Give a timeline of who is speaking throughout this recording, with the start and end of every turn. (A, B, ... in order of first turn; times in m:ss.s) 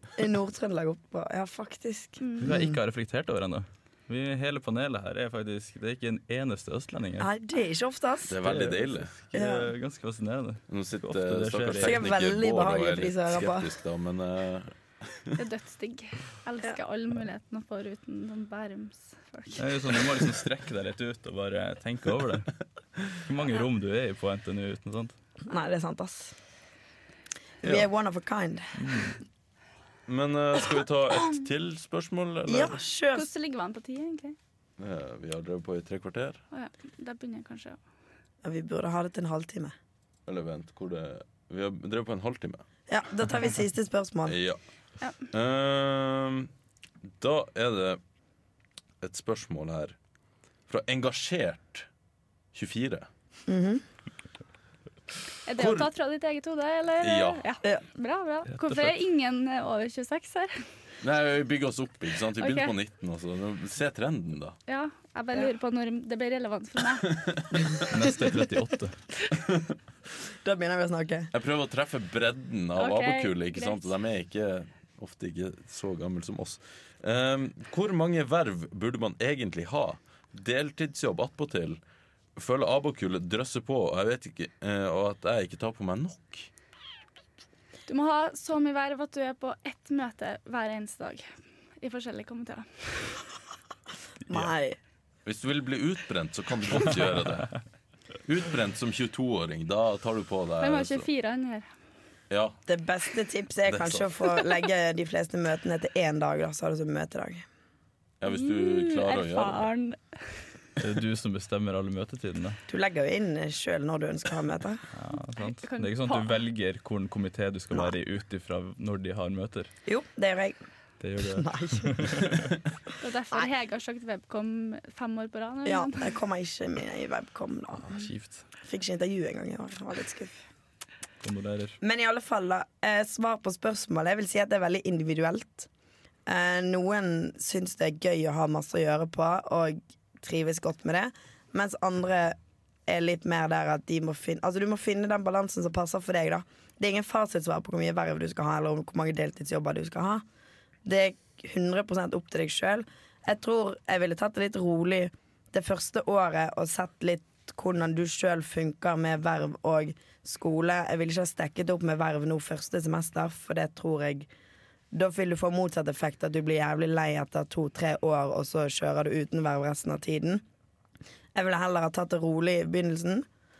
0:00.2-0:02.8 A
0:02.2-0:02.6 B
0:02.4-0:07.3 C
0:07.2-0:08.4 A
0:08.2-0:09.1 D
0:08.4-0:12.0 C
0:09.3-0:09.7 A
0:10.7-0:15.4 D
0:11.8-0:13.7 A
0:15.4-0:20.0 B
0:19.6-0:22.5 C
0:23.1-0:25.2 C
0:25.5-0:26.4 A
0:27.6-0:28.8 A
0:28.8-0:29.2 C
0:30.1-0:32.8 D
0:32.5-0:33.3 A
0:33.1-0:34.4 B
0:34.8-0:36.4 D
0:36.5-0:37.8 B
0:38.4-0:39.7 A
0:40.2-0:42.6 D
0:42.9-0:44.4 A
0:44.2-0:44.6 D
0:45.3-0:46.5 D
0:47.0-0:48.0 D
0:49.0-0:50.0 D
0:50.7-0:51.9 D
0:52.5-0:53.1 D
0:53.5-0:53.8 A
0:55.4-1:00.6 B
0:55.6-0:55.9 D
0:57.0-0:57.4 D
0:58.5-0:58.9 C
1:01.0-1:04.6 D
1:02.3-1:02.7 B
1:04.7-1:07.2 B
1:07.1-1:07.8 D
1:07.9-1:09.0 C
1:09.3-1:09.7 D
1:10.4-1:11.3 A
1:11.3-1:21.8 D
1:12.8-1:13.9 B
1:22.4-1:26.5 D
1:27.9-1:31.3 B
1:31.8-1:33.3 B
1:34.3-1:34.8 A
1:35.2-1:37.6 D
1:38.2-1:41.1 D
1:40.6-1:41.7 B
1:42.3-1:42.6 D
1:42.7-1:47.4 A
1:43.7-1:44.1 D
1:48.2-1:49.7 D
1:48.2-1:50.4 B
1:50.8-1:52.6 C
1:52.7-1:54.8 A
1:54.9-1:59.7 C
1:55.4-1:56.4 B
1:59.9-2:00.6 A
2:01.0-2:02.4 C
2:01.3-2:02.3 A
2:03.0-2:06.2 B
2:05.6-2:08.1 A
2:07.7-2:08.4 C
2:08.6-2:10.3 A
2:11.2-2:11.8 C
2:11.8-2:15.7 A
2:16.2-2:22.4 A
2:22.9-2:30.2 A
2:30.8-2:44.3 A
2:44.9-2:50.4 A
2:51.4-2:53.2 A